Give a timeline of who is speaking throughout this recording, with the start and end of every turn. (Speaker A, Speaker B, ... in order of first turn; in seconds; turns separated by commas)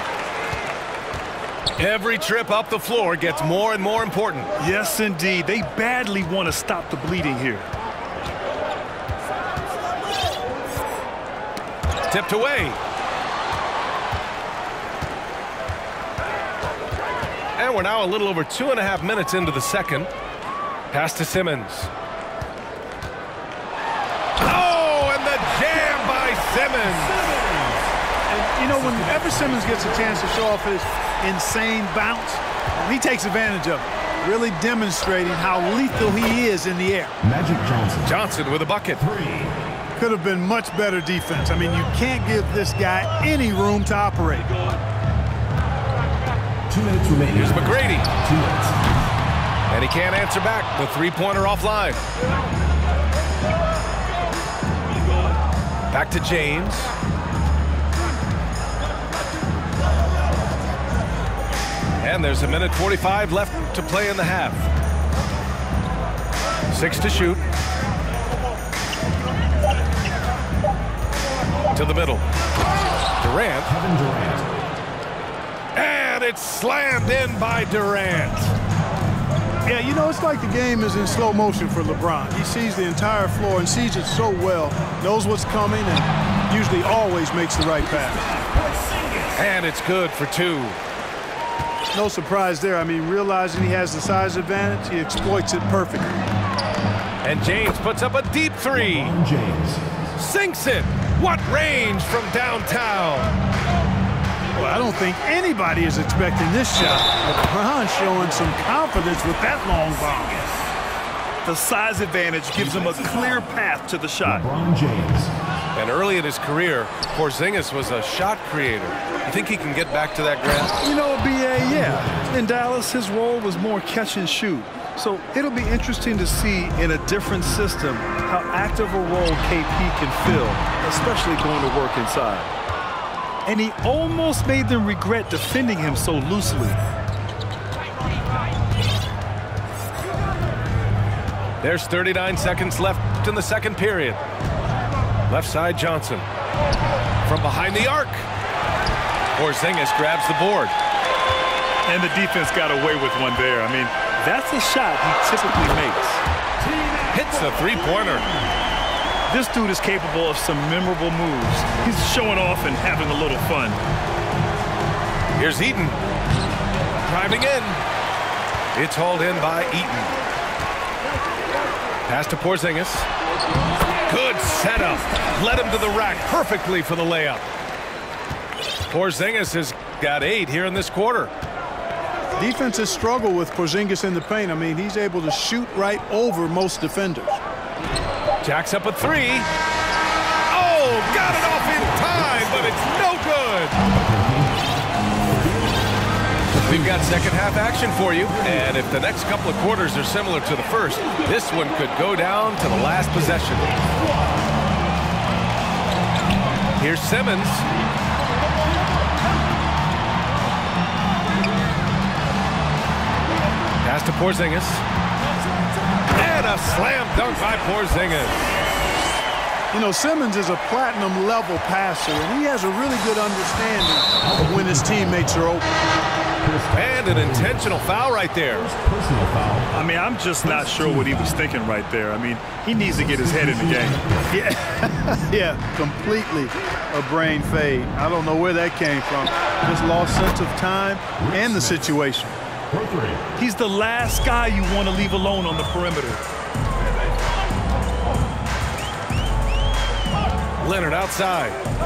Speaker A: 1.8-4.5, Speaker B: 4.6-7.7, Speaker A: 12.1-12.8, Speaker A: 17.6-20.1, Speaker A: 20.9-21.9, Speaker A: 24.4-27.2, Speaker C: 28.3-37.2, Speaker D: 37.2-38.0, Speaker A: 38.0-39.0, Speaker D: 39.1-39.5, Speaker C: 40.0-44.5, Speaker D: 46.7-48.7, Speaker A: 47.3-48.1, Speaker A: 49.7-52.0, Speaker A: 55.9-56.9, Speaker A: 62.0-64.7, Speaker A: 66.7-67.4, Speaker A: 71.7-72.2, Speaker A: 73.2-73.8, Speaker D: 73.8-74.5, Speaker A: 75.7-78.5, Speaker C: 79.7-88.2, Speaker A: 89.3-90.8, Speaker C: 91.9-96.1, Speaker A: 97.2-99.2, Speaker D: 98.9-99.8, Speaker A: 100.1-103.3, Speaker C: 104.6-110.4, Speaker B: 111.4-114.6, Speaker D: 114.5-115.3, Speaker A: 115.7-120.7, Speaker B: 120.8-132.5, Speaker B: 133.5-136.8, Speaker A: 141.6-144.2, Speaker A: 145.3-146.3, Speaker A: 147.2-148.3, Speaker A: 149.3-150.7, Speaker B: 151.9-156.2, Speaker A: 157.1-158.3, Speaker B: 159.3-163.8, Speaker A: 165.3-166.0, Speaker A: 167.1-167.8, Speaker A: 168.7-170.2, Speaker A: 172.1-173.1, Speaker A: 174.1-177.4, Speaker A: 178.9-181.3, Speaker C: 182.4-187.4, Speaker A: 188.4-189.5, Speaker A: 190.5-193.8, Speaker D: 194.0-194.5, Speaker A: 196.6-203.7, Speaker A: 206.8-207.7, Speaker A: 213.8-214.8, Speaker A: 216.2-218.4, Speaker C: 219.7-225.7, Speaker D: 224.3-225.1, Speaker D: 226.4-227.3, Speaker A: 226.7-228.7, Speaker D: 228.8-229.7, Speaker B: 229.7-234.0, Speaker D: 230.6-231.1, Speaker D: 233.4-234.3, Speaker C: 234.3-242.4, Speaker D: 242.7-243.2, Speaker B: 243.4-246.2, Speaker A: 250.6-251.6